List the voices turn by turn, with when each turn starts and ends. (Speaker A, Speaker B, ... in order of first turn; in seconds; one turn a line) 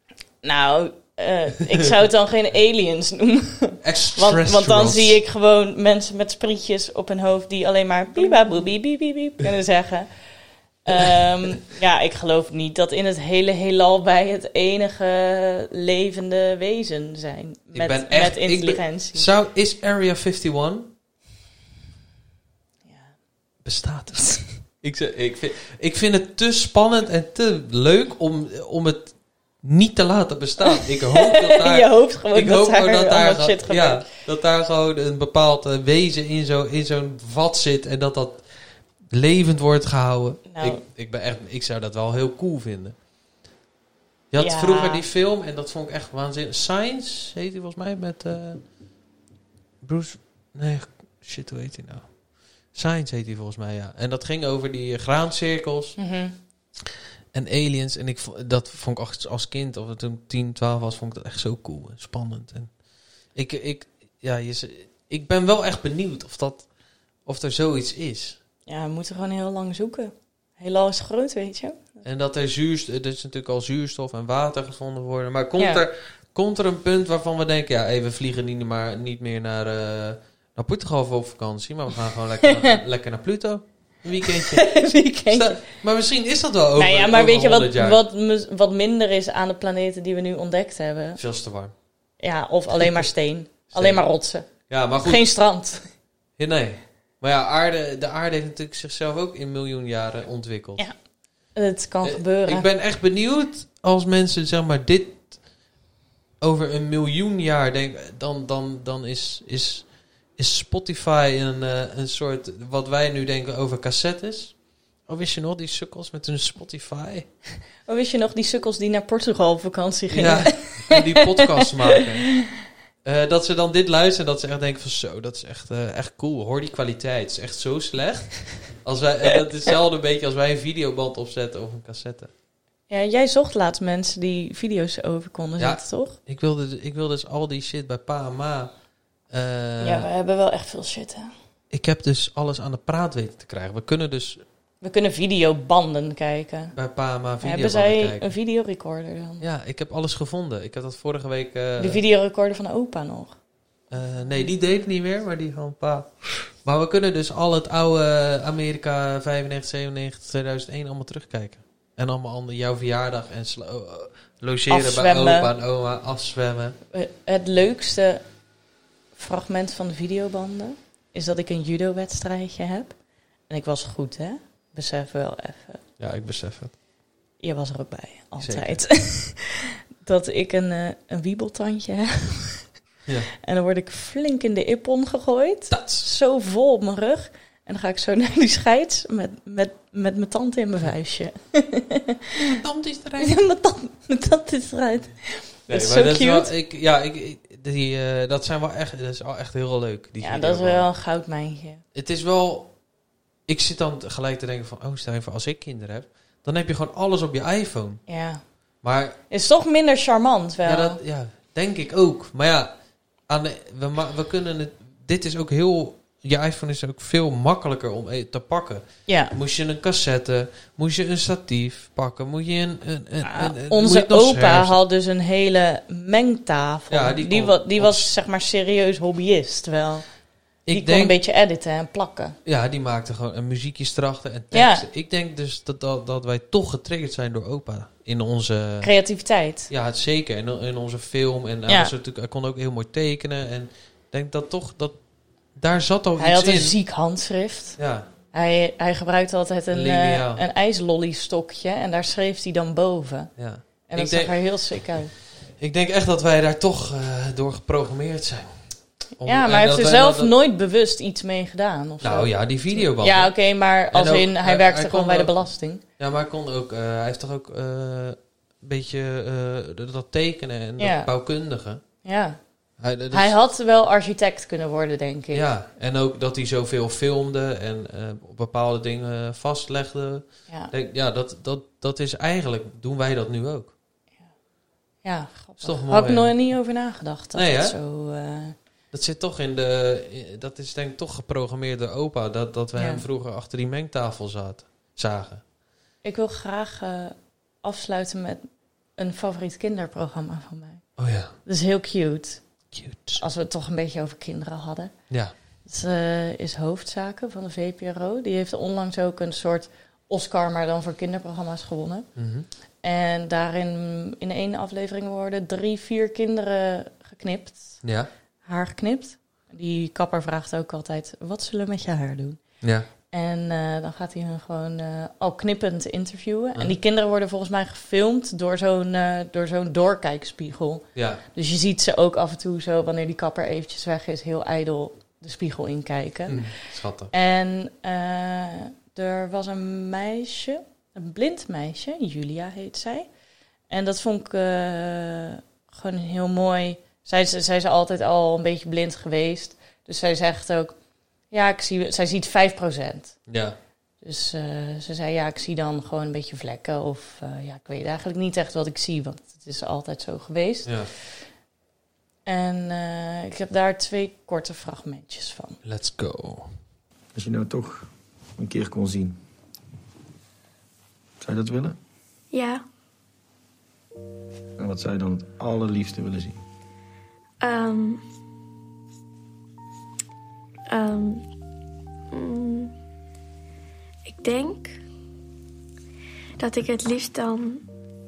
Speaker A: 0.4-10.1
Speaker B: 3.8-5.2
Speaker A: 10.8-19.3
Speaker B: 17.7-20.9
Speaker A: 22.9-23.1
Speaker B: 23.6-38.4
Speaker A: 30.7-34.1
Speaker B: 39.1-43.0
Speaker A: 40.5-40.8
Speaker B: 44.3-48.6
Speaker A: 44.4-45.0
Speaker B: 49.8-52.1
Speaker B: 52.7-56.0
Speaker A: 56.0-56.3
Speaker B: 57.3-62.7
Speaker B: 63.3-66.7
Speaker B: 67.2-68.4
Speaker A: 68.7-71.8
Speaker B: 72.0-84.7
Speaker A: 75.6-75.8
Speaker A: 82.4-82.8
Speaker A: 84.3-85.6
Speaker B: 85.3-88.0
Speaker A: 86.8-91.2
Speaker B: 91.2-91.7
Speaker A: 92.2-94.5
Speaker B: 93.7-94.0
Speaker B: 94.7-95.3
Speaker A: 95.0-95.8
Speaker B: 96.4-100.8
Speaker A: 101.5-102.7
Speaker B: 102.0-105.3
Speaker B: 106.4-114.5
Speaker B: 115.1-117.3
Speaker A: 117.8-122.5
Speaker B: 120.1-122.3
Speaker B: 123.0-132.3
Speaker A: 132.9-136.2
Speaker B: 135.6-138.7
Speaker B: 139.3-140.1
Speaker A: 139.8-141.3
Speaker B: 141.7-144.4
Speaker A: 144.8-146.7
Speaker B: 146.7-148.3
Speaker A: 147.4-149.4
Speaker B: 149.4-152.0
Speaker A: 151.8-153.4
Speaker B: 153.9-166.8
Speaker A: 164.7-165.5
Speaker A: 166.9-168.2
Speaker A: 169.1-172.9
Speaker A: 173.5-175.8
Speaker B: 176.0-176.7
Speaker A: 177.4-182.7
Speaker B: 178.4-178.8
Speaker A: 183.4-192.5
Speaker B: 185.7-186.1
Speaker B: 192.6-193.4
Speaker A: 193.2-196.5
Speaker B: 195.7-200.9
Speaker A: 200.2-201.8
Speaker B: 201.9-202.7
Speaker B: 203.5-208.0
Speaker A: 208.1-208.4
Speaker B: 208.8-209.2
Speaker A: 209.3-211.0
Speaker B: 210.6-212.7
Speaker B: 213.3-224.8
Speaker A: 219.1-219.3
Speaker A: 223.2-230.0
Speaker B: 226.9-228.1
Speaker B: 230.7-231.2
Speaker A: 230.7-232.3
Speaker B: 232.4-238.9
Speaker A: 234.5-234.8
Speaker A: 238.8-239.7
Speaker B: 239.7-244.9
Speaker A: 241.7-241.9
Speaker B: 245.6-246.7
Speaker A: 246.2-247.8
Speaker B: 247.8-248.1
Speaker A: 248.3-253.3
Speaker B: 249.7-250.4
Speaker B: 253.4-254.3
Speaker A: 253.9-255.1
Speaker B: 255.6-258.6
Speaker B: 259.2-260.3
Speaker A: 259.2-265.8
Speaker B: 262.0-263.3
Speaker B: 263.9-265.4
Speaker B: 266.0-271.8
Speaker A: 270.8-271.1
Speaker A: 272.0-272.4
Speaker B: 272.8-273.3
Speaker A: 273.1-275.5
Speaker B: 275.3-283.7
Speaker A: 285.0-288.5
Speaker B: 285.6-286.4
Speaker B: 287.3-287.8
Speaker B: 288.9-295.4
Speaker A: 292.8-293.0
Speaker A: 296.0-300.8
Speaker B: 301.0-301.3
Speaker A: 301.4-302.4
Speaker B: 302.7-303.2
Speaker A: 303.1-304.9
Speaker A: 305.6-312.1
Speaker B: 312.1-312.5
Speaker A: 312.8-317.8
Speaker B: 317.8-318.1
Speaker A: 318.4-322.4
Speaker B: 322.6-322.9
Speaker A: 323.1-336.5
Speaker B: 330.9-331.2
Speaker B: 336.3-337.1
Speaker A: 337.1-343.1
Speaker A: 343.7-350.7
Speaker A: 351.3-353.1
Speaker B: 353.3-353.6
Speaker A: 354.0-361.1
Speaker B: 360.6-360.9
Speaker A: 362.2-365.6
Speaker B: 365.6-366.5
Speaker C: 367.1-369.2
Speaker C: 371.2-371.8
Speaker D: 372.3-372.6
Speaker C: 374.6-376.4
Speaker D: 377.4-378.0
Speaker D: 380.7-381.2
Speaker D: 382.1-382.7
Speaker D: 384.1-384.8
Speaker D: 386.4-387.6